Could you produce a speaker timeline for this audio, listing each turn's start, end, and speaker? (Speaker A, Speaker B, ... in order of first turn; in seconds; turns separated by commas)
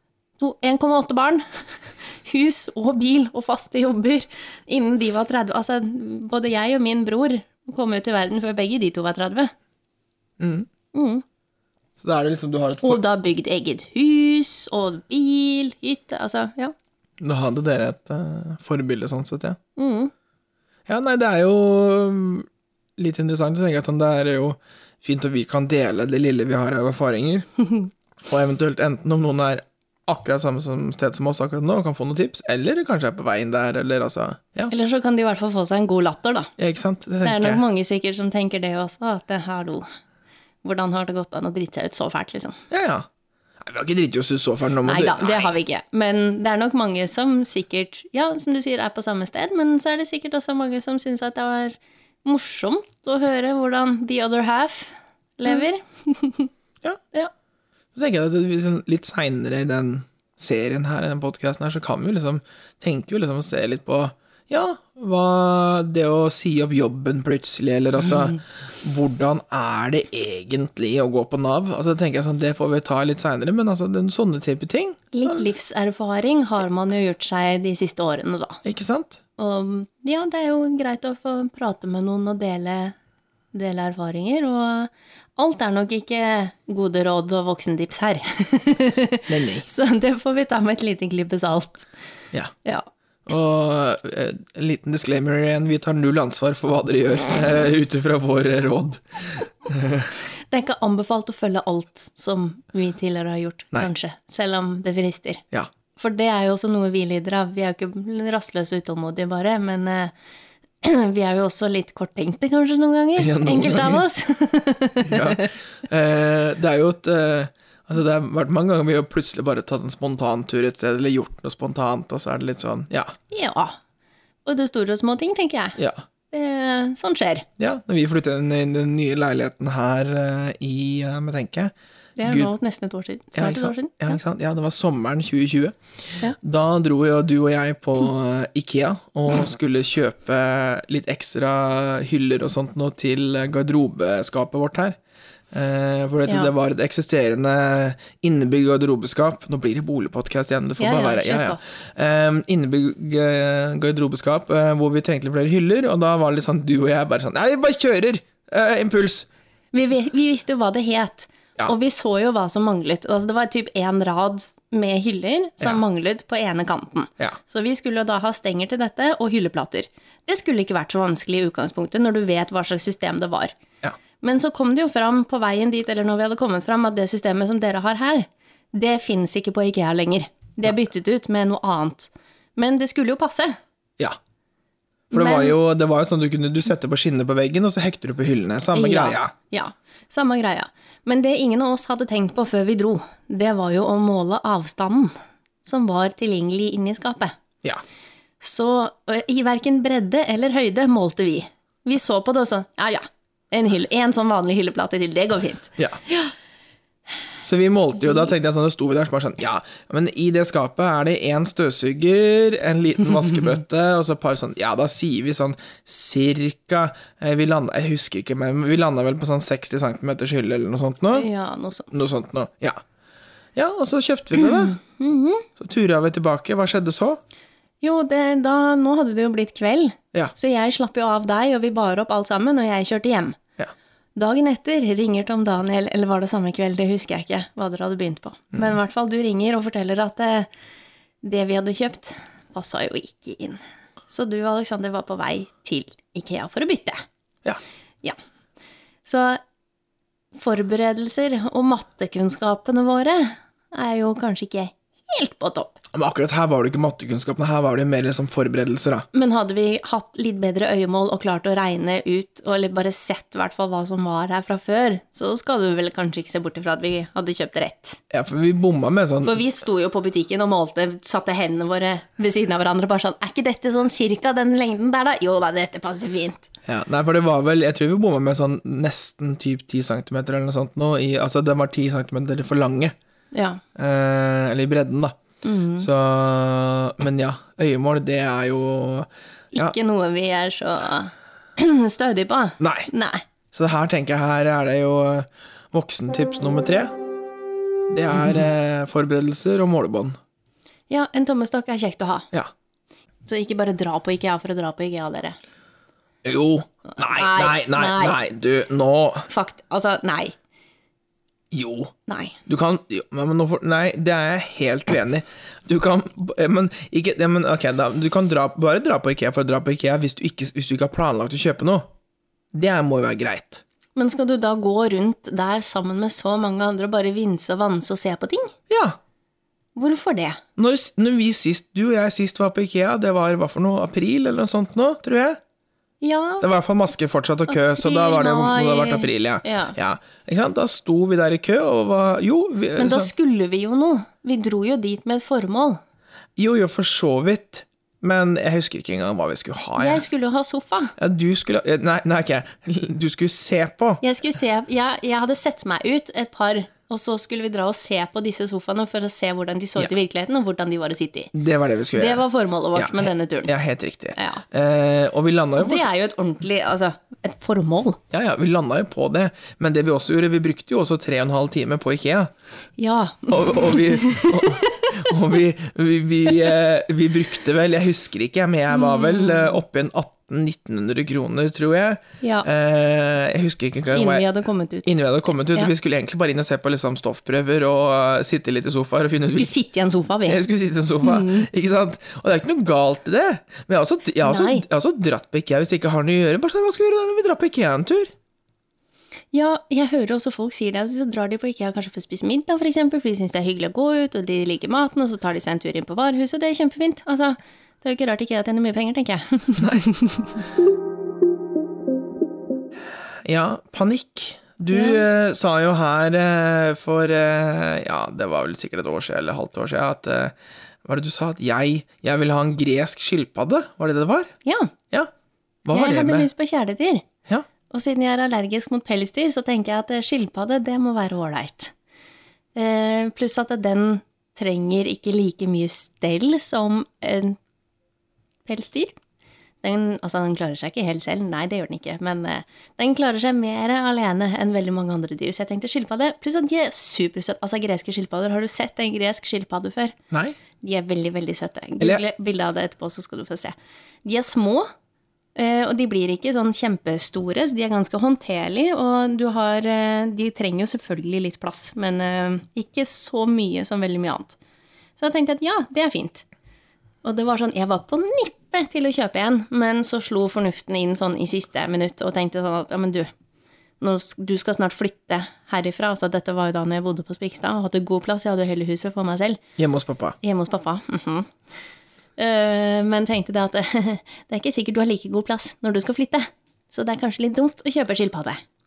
Speaker A: 0.4-9.5, Speaker B: 10.4-10.7, Speaker A: 10.9-11.2, Speaker B: 12.0-13.0, Speaker A: 12.8-16.7, Speaker B: 17.2-19.6, Speaker A: 19.8-20.1, Speaker B: 20.9-27.5, Speaker B: 28.2-34.7, Speaker A: 34.7-36.5, Speaker B: 36.6-37.6, Speaker A: 37.2-39.8, Speaker A: 40.6-42.6, Speaker B: 42.7-43.1, Speaker B: 43.6-45.5, Speaker A: 44.8-56.5, Speaker B: 57.9-75.4, Speaker A: 75.1-78.6, Speaker B: 78.6-79.2, Speaker A: 79.4-83.0, Speaker A: 83.5-91.9, Speaker B: 89.3-89.6, Speaker B: 93.2-100.1, Speaker A: 100.2-105.4, Speaker A: 106.0-110.1, Speaker A: 110.8-115.5, Speaker B: 113.2-114.0, Speaker B: 115.0-123.2, Speaker A: 123.3-123.8, Speaker A: 124.4-125.8, Speaker B: 125.8-126.0, Speaker A: 126.3-127.5, Speaker B: 127.6-131.7, Speaker A: 132.2-134.2, Speaker B: 132.2-132.5, Speaker B: 133.3-145.0, Speaker B: 145.5-159.3, Speaker A: 150.8-151.6, Speaker A: 159.7-173.5, Speaker A: 174.2-183.6, Speaker A: 185.1-185.6, Speaker B: 185.1-189.3, Speaker A: 188.7-195.1, Speaker A: 195.6-197.4, Speaker A: 198.4-206.3, Speaker B: 207.4-221.3, Speaker A: 221.1-222.0, Speaker B: 221.9-222.8, Speaker B: 223.6-224.8, Speaker A: 224.4-225.5, Speaker B: 225.6-227.2, Speaker A: 227.8-233.4, Speaker A: 234.1-240.5, Speaker A: 241.2-247.0, Speaker A: 249.0-249.4, Speaker A: 250.3-255.8, Speaker B: 255.9-259.1, Speaker A: 259.1-268.0, Speaker B: 268.1-269.4, Speaker A: 269.2-276.4, Speaker B: 276.6-282.9, Speaker A: 283.3-283.6, Speaker B: 283.7-285.2, Speaker A: 285.4-285.9, Speaker B: 285.8-289.7, Speaker A: 289.5-293.2, Speaker B: 292.6-292.9, Speaker B: 293.5-296.9, Speaker B: 297.9-300.2, Speaker A: 300.9-302.3, Speaker A: 303.2-305.4, Speaker B: 306.2-309.3, Speaker A: 306.9-308.2, Speaker A: 309.3-310.4, Speaker B: 311.5-311.9, Speaker A: 312.1-312.4, Speaker B: 312.4-321.9, Speaker B: 322.5-323.6, Speaker A: 323.9-328.5, Speaker B: 328.7-329.0, Speaker A: 329.7-330.4, Speaker B: 330.6-335.4, Speaker A: 336.0-336.5, Speaker B: 336.4-343.1, Speaker A: 337.5-339.8, Speaker A: 342.8-345.8, Speaker B: 346.4-350.0, Speaker A: 349.8-350.9, Speaker B: 351.0-354.0, Speaker A: 354.0-361.3, Speaker B: 361.3-362.2, Speaker A: 361.9-363.5, Speaker B: 362.7-365.9, Speaker A: 364.1-364.4, Speaker A: 365.6-368.0, Speaker B: 368.1-372.3, Speaker A: 372.8-374.9, Speaker B: 373.3-384.2, Speaker A: 378.7-379.5, Speaker A: 382.2-382.5, Speaker A: 383.9-385.7, Speaker B: 384.8-389.5, Speaker A: 389.2-390.4, Speaker B: 390.2-398.1, Speaker A: 391.0-391.5, Speaker A: 394.2-394.6, Speaker A: 399.3-410.2, Speaker B: 409.6-409.9, Speaker B: 413.2-424.3, Speaker A: 414.7-415.0, Speaker A: 424.4-424.7, Speaker B: 425.6-426.3, Speaker A: 425.7-427.1, Speaker A: 427.7-431.7, Speaker A: 432.5-437.4, Speaker A: 438.4-438.9, Speaker A: 439.6-449.9, Speaker B: 450.1-450.4, Speaker A: 450.6-454.7, Speaker A: 455.3-464.4, Speaker A: 465.0-466.2, Speaker A: 467.0-473.1, Speaker A: 473.8-479.4, Speaker B: 479.6-480.2, Speaker A: 480.2-481.3, Speaker A: 482.2-488.4